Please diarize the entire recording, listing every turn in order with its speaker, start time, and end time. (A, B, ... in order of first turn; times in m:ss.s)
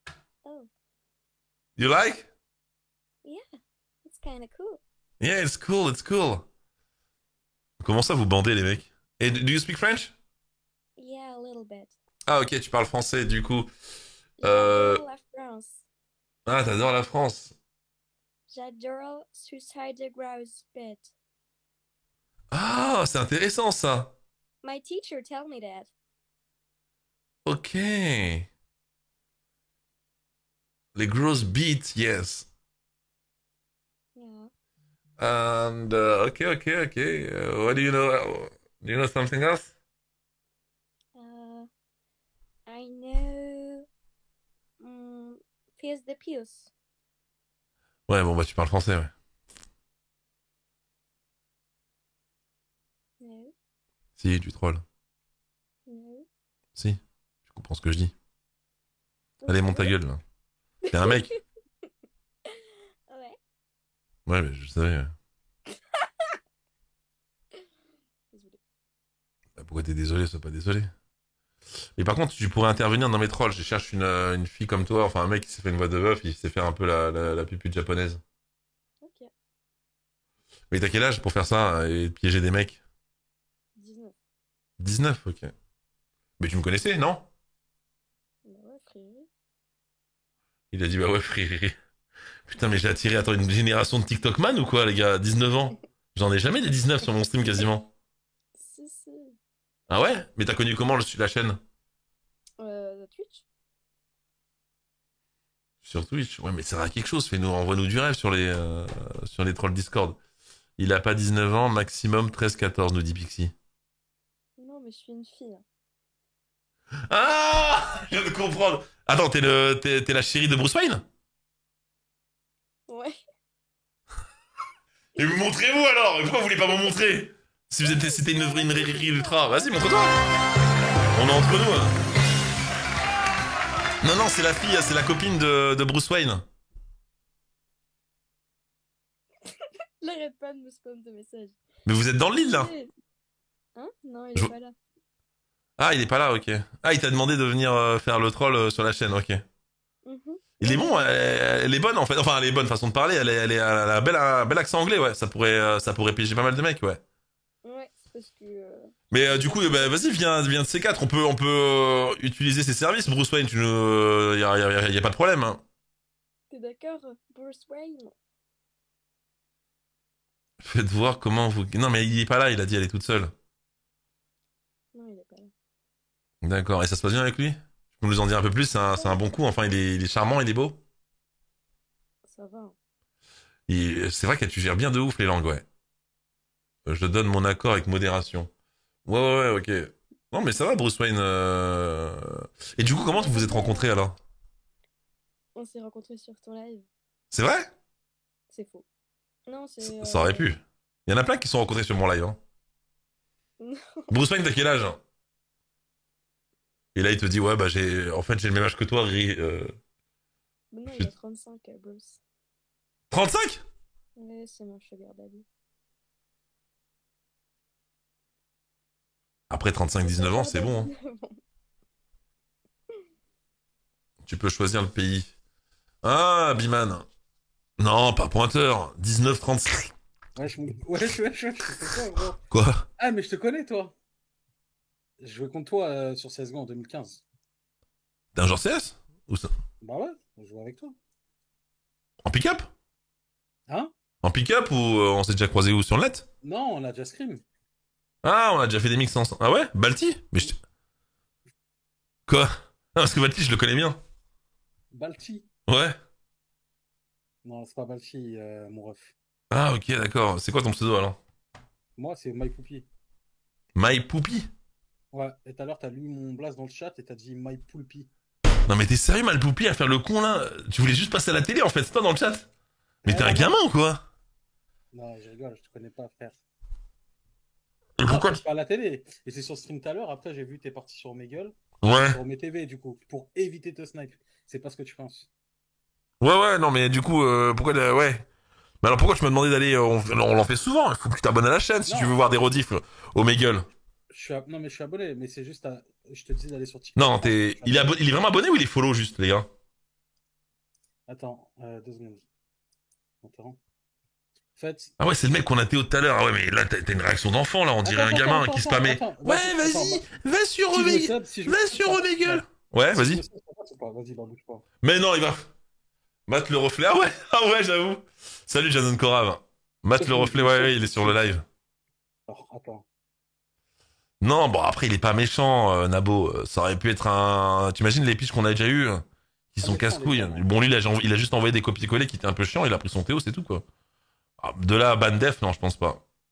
0:00.4-0:00.7 A
0:01.8-0:02.3 B
0:04.0-0:04.8 A
0:05.2-0:06.4 B
0:07.8-0:10.1 B
0:11.0-0:12.0 A
0:12.3-0:13.7 B
0:14.4-0:15.8 A
0:14.4-0:15.0 B
0:16.4-0:17.5 B
0:18.5-0:21.1 A
0:22.5-0:24.1 B
0:24.6-0:25.9 A
0:27.4-0:28.5 B
0:30.9-0:32.5 B
0:34.2-0:34.5 A
0:35.2-0:39.7 B
0:41.1-0:41.7 A
0:42.7-0:43.8 A
0:44.8-0:46.7 A
0:48.1-0:49.1 B
0:53.2-0:53.5 A
0:54.2-0:54.8 B
0:55.8-0:56.2 A
0:56.7-0:58.1 B
0:59.4-1:00.0 A
0:59.5-1:00.2 B
1:00.8-1:01.4 A
1:00.9-1:01.3 B
1:02.5-1:03.4 A
1:04.3-1:05.1 B
1:05.9-1:06.3 A
1:08.3-1:08.6 A
1:09.6-1:10.9 B
1:12.0-1:18.2 B
1:19.0-1:19.3 A
1:20.7-1:22.8 B
1:23.8-1:24.2 A
1:24.8-1:25.5 B
1:26.4-1:27.3 B
1:28.4-1:29.3 A
1:30.7-1:31.7 B
1:32.4-1:37.9 B
1:38.6-1:39.4 A
1:39.9-1:41.6 B
1:42.6-1:43.4 A
1:45.8-1:50.2 B
1:50.8-1:53.5 B
1:54.6-1:55.6 A
1:57.1-2:01.0 B
2:02.9-2:03.1 A
2:05.2-2:10.1 B
2:06.6-2:07.0 A
2:07.8-2:10.2 A
2:11.1-2:11.9 B
2:14.0-2:16.4 B
2:20.0-2:21.6 A
2:21.8-2:22.7 B
2:22.3-2:22.9 A
2:23.8-2:24.7 A
2:25.8-2:29.4 B
2:30.0-2:31.3 A
2:30.6-2:37.0 B
2:37.6-2:40.0 A
2:39.1-2:45.6 B
2:46.5-2:48.1 A
2:50.6-2:53.3 B
2:54.9-2:55.5 A
2:56.4-3:00.8 B
2:58.9-2:59.2 A
3:02.2-3:02.7 A
3:03.7-3:05.6 B
3:06.8-3:08.5 B
3:09.0-3:14.2 B
3:12.9-3:14.0 A
3:15.5-3:16.9 A
3:17.3-3:17.7 B
3:18.5-3:18.8 A
3:19.5-3:20.5 A
3:19.8-3:22.4 B
3:23.6-3:24.1 A
3:24.1-3:25.0 B
3:26.9-3:29.7 B
3:30.7-3:32.2 A
3:30.8-3:31.1 B
3:33.1-3:33.6 B
3:34.2-3:35.4 A
3:39.5-3:40.9 B
3:40.0-3:41.4 A
3:44.2-3:45.3 B
3:46.0-3:47.0 B
3:47.8-3:49.9 B
3:50.4-3:52.4 C
3:52.5-3:52.8 B
3:53.0-3:53.9 C
3:55.2-3:57.2 C
3:58.3-3:59.5 B
3:59.8-4:00.9 C
4:02.2-4:02.7 B
4:04.2-4:06.2 B
4:06.4-4:07.4 C
4:08.2-4:10.6 B
4:12.3-4:14.0 B
4:14.9-4:15.4 C
4:15.7-4:16.0 B
4:17.4-4:19.1 C
4:19.5-4:21.2 B
4:22.0-4:22.9 C
4:23.8-4:24.5 B
4:25.1-4:28.1 C
4:28.7-4:32.5 B
4:33.0-4:33.6 C
4:33.1-4:34.0 B
4:34.9-4:36.4 C
4:38.0-4:38.4 B
4:38.1-4:45.3 C
4:41.8-4:42.2 B
4:46.2-4:48.2 B
4:48.8-4:53.7 B
4:51.8-4:52.2 C
4:54.1-4:58.0 C
4:57.0-4:59.5 B
5:01.1-5:02.2 C
5:03.2-5:03.6 C
5:04.6-5:04.9 C
5:05.0-5:13.2 B
5:07.8-5:10.0 C
5:10.7-5:14.6 C
5:14.8-5:15.5 B
5:16.3-5:21.4 B
5:20.0-5:21.4 C
5:22.3-5:22.8 C
5:24.2-5:33.6 B
5:29.6-5:30.4 C
5:34.4-5:36.0 B